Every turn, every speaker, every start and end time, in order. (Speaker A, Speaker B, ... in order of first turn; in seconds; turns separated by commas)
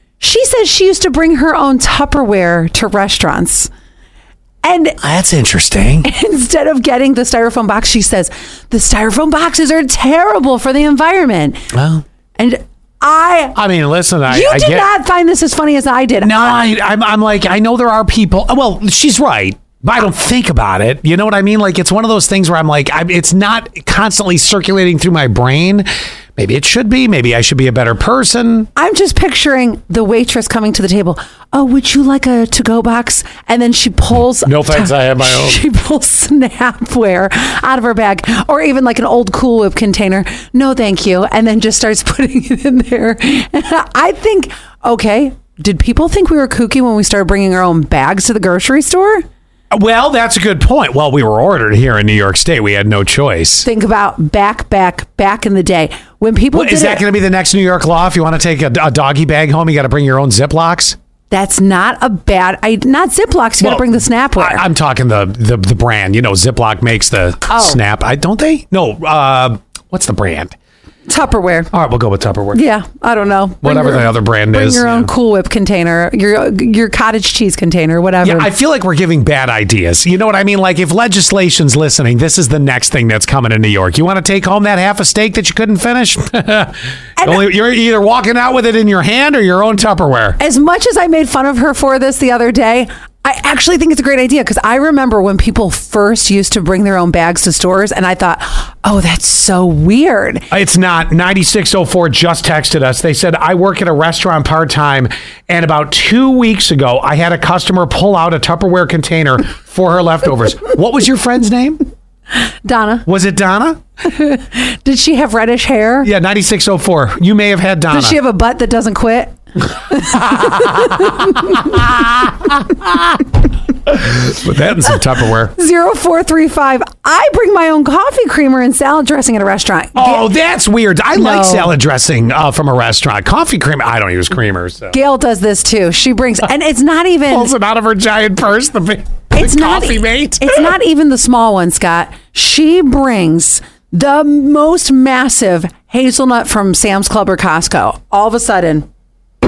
Speaker A: 0.2-3.7, Speaker A: 4.6-5.0, Speaker B: 5.0-6.1, Speaker A: 6.0-11.7, Speaker B: 11.7-12.0, Speaker A: 12.4-13.6, Speaker B: 13.5-14.9, Speaker A: 14.3-16.6, Speaker B: 16.2-28.7, Speaker A: 28.8-49.2, Speaker B: 34.4-35.6, Speaker B: 49.7-53.7, Speaker A: 53.6-57.0, Speaker B: 56.5-61.0, Speaker A: 61.3-64.6, Speaker B: 63.6-70.5, Speaker A: 67.5-67.8, Speaker A: 71.1-71.7, Speaker B: 71.7-72.6, Speaker A: 72.5-78.5, Speaker B: 73.6-75.1, Speaker B: 78.2-90.4, Speaker A: 87.2-87.4, Speaker A: 90.4-100.5, Speaker B: 100.5-111.8, Speaker A: 112.6-113.0, Speaker B: 113.0-113.8, Speaker A: 114.0-116.1, Speaker B: 116.0-118.2, Speaker A: 117.9-122.3, Speaker B: 120.3-121.5, Speaker B: 123.8-125.5, Speaker A: 125.5-130.3, Speaker B: 129.9-135.0, Speaker A: 131.1-131.7, Speaker A: 134.9-137.5, Speaker B: 137.2-140.7, Speaker A: 139.3-148.8